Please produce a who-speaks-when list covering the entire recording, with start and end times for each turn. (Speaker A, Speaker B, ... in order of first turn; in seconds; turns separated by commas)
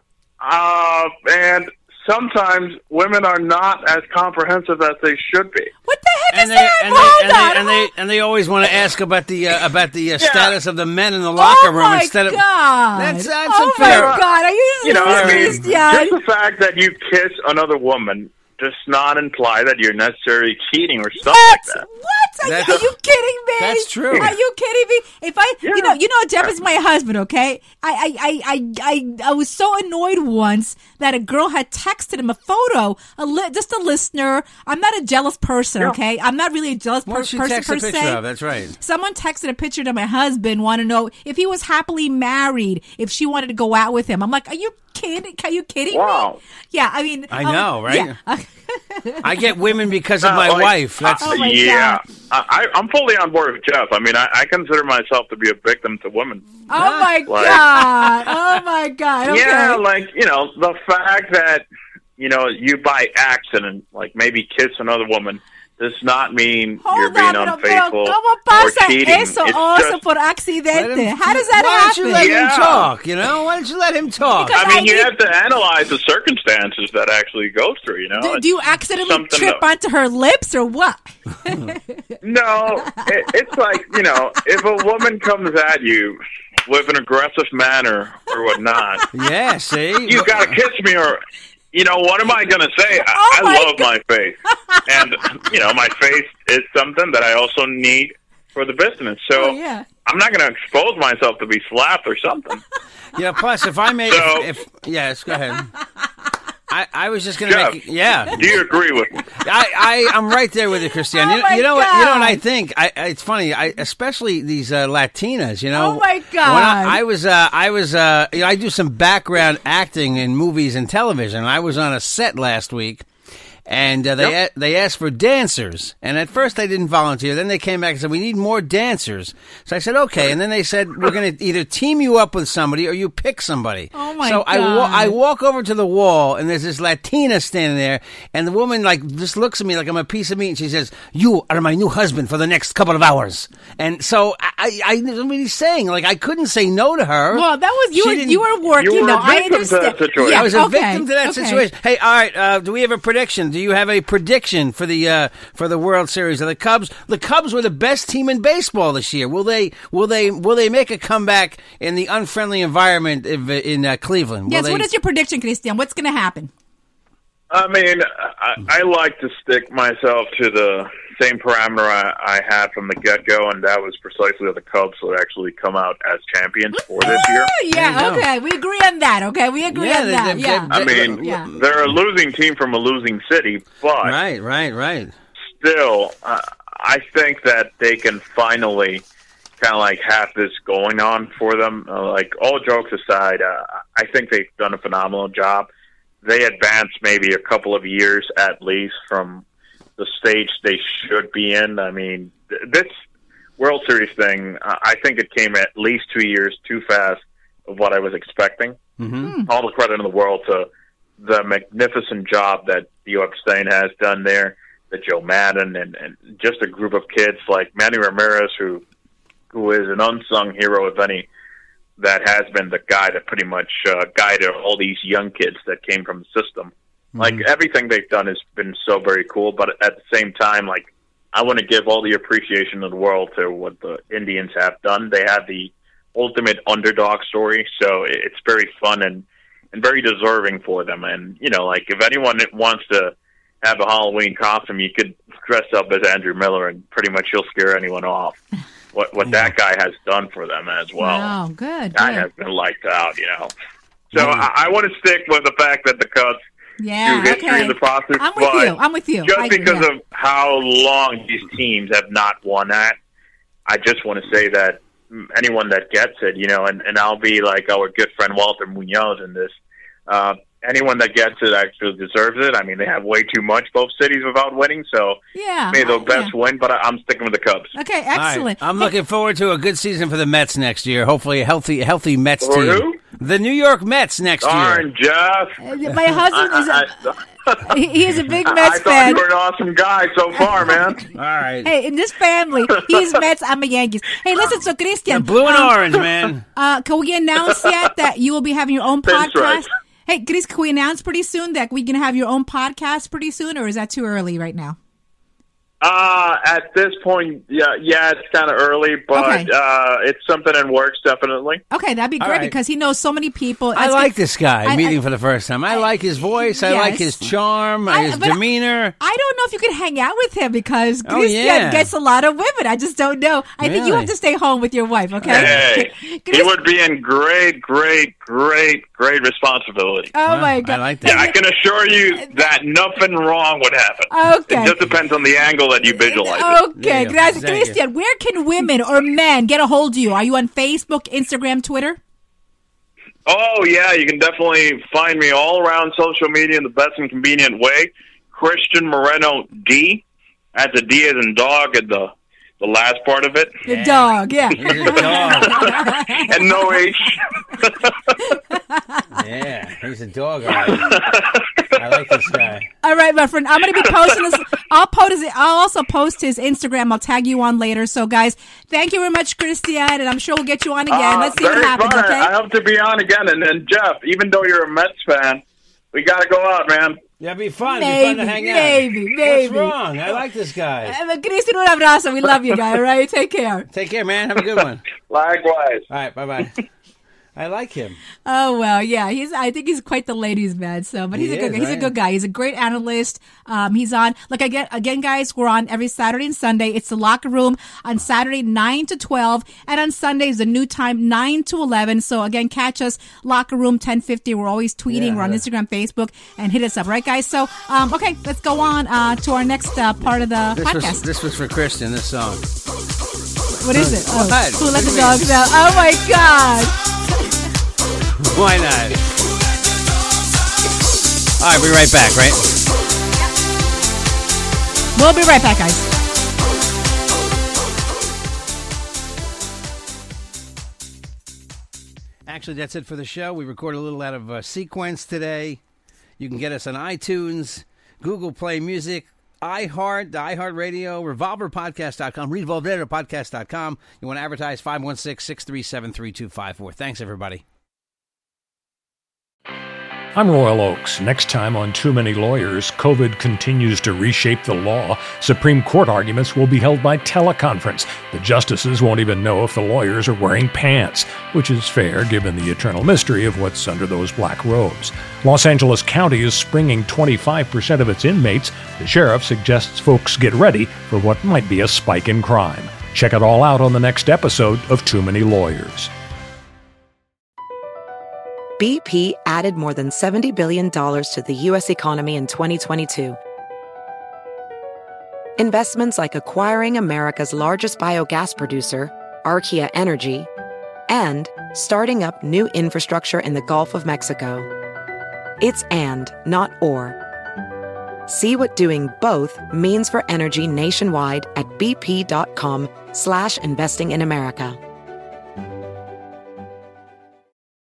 Speaker A: 0.4-5.7, Speaker B: 5.8-7.9, Speaker C: 6.3-12.4, Speaker A: 10.2-10.6, Speaker B: 11.3-16.2, Speaker C: 12.9-14.2, Speaker A: 13.8-14.2, Speaker A: 14.8-21.8, Speaker C: 15.0-15.7, Speaker B: 21.2-38.2, Speaker C: 22.4-22.8, Speaker C: 23.6-24.3, Speaker A: 25.6-26.0, Speaker C: 37.0-38.8, Speaker B: 38.8-49.3, Speaker A: 45.9-46.4, Speaker C: 47.3-48.1, Speaker C: 49.2-51.3, Speaker A: 50.2-56.5, Speaker B: 51.2-52.0, Speaker B: 56.7-59.8, Speaker C: 56.8-57.2, Speaker A: 57.2-57.7, Speaker A: 59.2-61.6, Speaker A: 62.2-70.0, Speaker B: 66.8-72.3, Speaker C: 70.7-74.6, Speaker A: 72.2-72.9, Speaker B: 74.4-75.1, Speaker A: 74.5-79.6, Speaker B: 78.2-82.0, Speaker A: 82.2-89.0, Speaker C: 89.1-90.5, Speaker A: 90.0-91.2, Speaker A: 91.7-102.6, Speaker B: 93.0-93.9, Speaker B: 99.3-99.8, Speaker C: 103.1-105.7, Speaker A: 104.1-104.5, Speaker C: 106.7-108.5, Speaker A: 107.4-107.8, Speaker A: 108.3-109.2, Speaker C: 109.3-123.1, Speaker B: 111.1-112.4, Speaker B: 115.7-117.0, Speaker C: 123.7-148.4, Speaker B: 133.9-135.2, Speaker B: 147.3-151.6, Speaker A: 148.8-150.5, Speaker C: 150.3-164.9, Speaker B: 164.5-166.5, Speaker A: 167.5-177.6, Speaker B: 176.7-181.5, Speaker C: 177.0-178.2, Speaker C: 179.7-181.9, Speaker A: 180.7-184.2, Speaker C: 184.0-185.1, Speaker A: 185.5-189.0, Speaker A: 189.6-195.7, Speaker A: 196.2-199.4, Speaker A: 200.0-202.9, Speaker A: 203.6-208.8, Speaker C: 209.0-209.3, Speaker B: 209.2-209.5, Speaker A: 209.4-218.8, Speaker A: 219.5-221.3, Speaker A: 222.0-248.4, Speaker C: 227.2-227.4, Speaker A: 248.9-251.3, Speaker C: 249.2-249.5, Speaker B: 251.0-252.3, Speaker A: 251.9-253.5, Speaker A: 254.1-256.4, Speaker C: 254.1-254.5, Speaker B: 256.8-259.9, Speaker A: 257.0-262.9, Speaker A: 263.7-269.5, Speaker A: 270.1-275.2, Speaker B: 275.4-276.3, Speaker A: 275.7-277.7, Speaker B: 277.7-278.9, Speaker C: 278.1-284.8, Speaker A: 282.4-283.0, Speaker A: 284.4-285.6, Speaker B: 285.6-286.9, Speaker A: 286.3-287.7, Speaker B: 287.7-289.2, Speaker A: 288.4-291.1, Speaker C: 291.1-291.7, Speaker B: 291.6-295.7, Speaker C: 295.1-296.4, Speaker B: 296.5-304.8, Speaker A: 299.0-299.6, Speaker A: 305.8-311.6, Speaker B: 309.1-309.5, Speaker B: 311.7-314.1, Speaker C: 312.2-312.5, Speaker C: 313.7-318.9, Speaker B: 314.6-315.0, Speaker B: 315.7-317.1, Speaker B: 317.9-318.4, Speaker B: 319.0-326.5, Speaker C: 321.0-321.9, Speaker C: 323.6-324.1, Speaker C: 325.2-325.6, Speaker A: 325.3-330.1, Speaker B: 330.1-331.3, Speaker C: 330.2-331.3, Speaker A: 331.0-336.6, Speaker B: 334.1-334.8, Speaker B: 335.9-342.0, Speaker C: 336.7-337.8, Speaker A: 343.2-350.0, Speaker A: 350.5-353.6, Speaker B: 353.6-356.8, Speaker C: 353.7-355.7, Speaker A: 354.8-357.9, Speaker B: 358.2-359.1, Speaker C: 359.2-360.9, Speaker A: 360.5-361.8, Speaker C: 361.8-362.7, Speaker B: 362.8-372.3, Speaker A: 363.8-364.2, Speaker A: 370.9-377.0, Speaker C: 377.2-380.9, Speaker B: 377.7-379.7, Speaker B: 380.8-383.6, Speaker C: 383.7-384.8, Speaker A: 384.9-385.9, Speaker C: 385.9-386.6, Speaker C: 387.4-388.0, Speaker B: 388.2-411.0, Speaker C: 391.1-391.9, Speaker C: 404.9-405.4, Speaker C: 410.6-412.4, Speaker B: 413.5-417.3, Speaker C: 413.7-415.3, Speaker C: 418.2-419.0, Speaker C: 421.4-422.4, Speaker B: 424.9-425.9, Speaker C: 432.2-435.6, Speaker C: 436.2-447.4, Speaker D: 450.1-475.9, Speaker E: 478.6-483.2, Speaker E: 485.4-490.3, Speaker E: 490.9-494.5, Speaker E: 495.4-497.0, Speaker E: 498.1-504.6